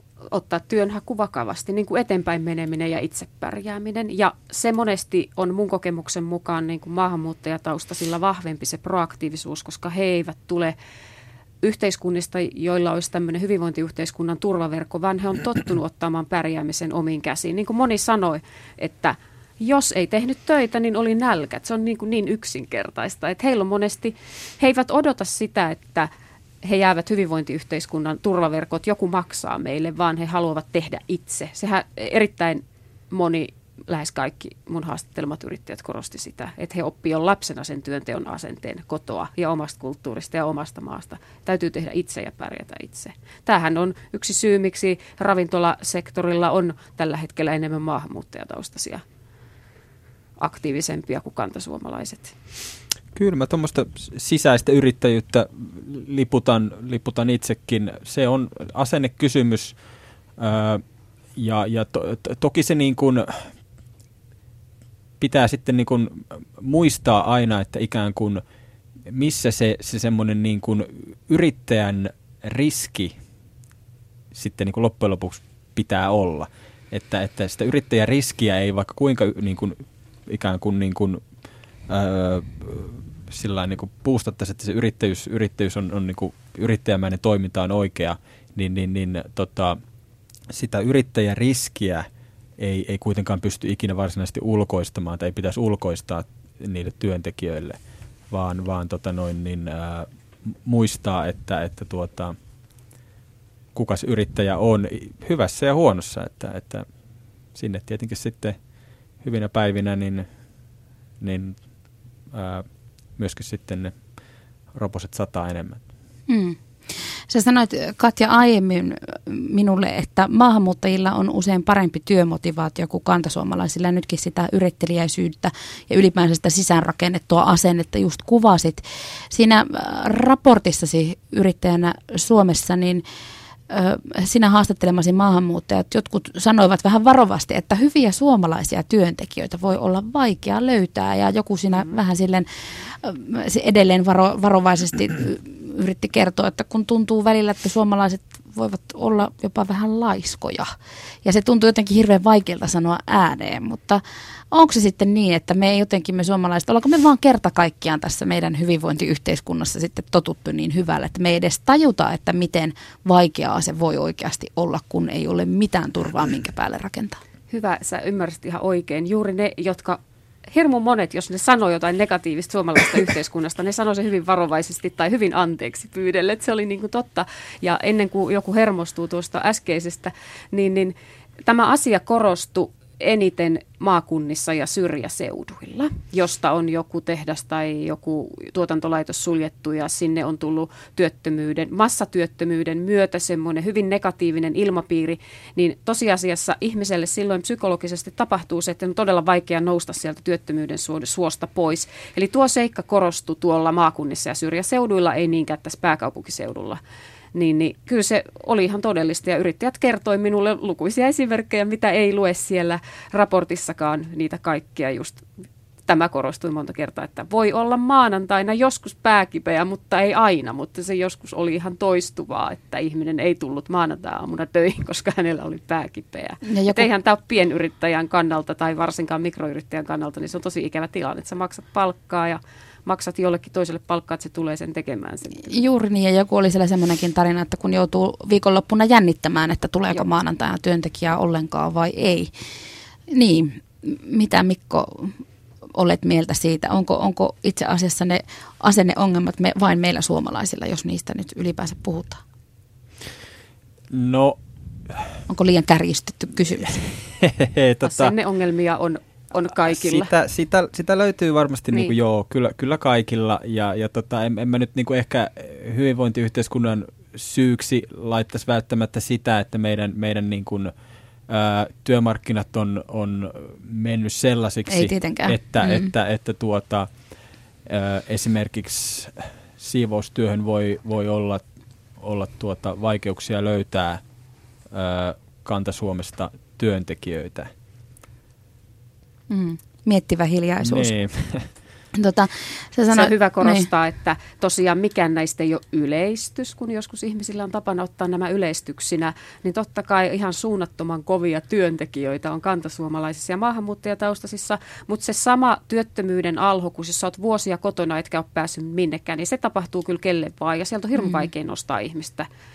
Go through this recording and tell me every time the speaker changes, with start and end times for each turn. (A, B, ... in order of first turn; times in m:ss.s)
0:00.3-0:10.8 A
0:11.6-0:26.1 A
0:26.6-0:49.0 A
0:50.4-0:52.4 A
0:53.2-0:59.8 B
1:00.4-1:00.8 B
1:01.4-1:03.5 B
1:05.2-1:08.4 B
1:09.1-1:13.2 B
1:14.3-1:21.2 B
1:21.9-1:29.8 B
1:30.5-1:32.1 B
1:32.6-1:37.8 B
1:38.3-1:40.1 B
1:40.6-1:42.4 B
1:43.7-1:46.9 B
1:47.6-1:48.6 B
1:49.2-1:50.3 B
1:51.2-1:51.6 B
1:52.3-1:52.7 B
1:53.2-1:54.0 B
1:54.7-1:55.8 B
1:56.3-1:56.6 C
1:57.3-2:13.0 C
2:13.7-2:30.7 C
2:31.2-2:47.2 C
2:47.5-2:50.0 A
2:50.5-3:26.8 A
3:27.4-3:35.2 A
3:35.9-3:55.6 A
3:46.4-3:46.9 C
3:55.4-4:02.3 C
4:03.1-4:05.2 C
4:05.8-4:12.2 C
4:13.9-4:14.4 B
4:15.3-4:16.8 C
4:16.9-4:18.1 B
4:17.8-4:20.1 A
4:19.6-4:30.7 B
4:31.3-4:36.9 B
4:34.7-4:35.9 C
4:37.7-4:41.4 B
4:42.0-4:44.0 B
4:44.7-4:47.5 B
4:49.3-4:50.9 C
4:50.6-4:51.5 B
4:51.9-4:53.7 C
4:52.9-5:12.3 A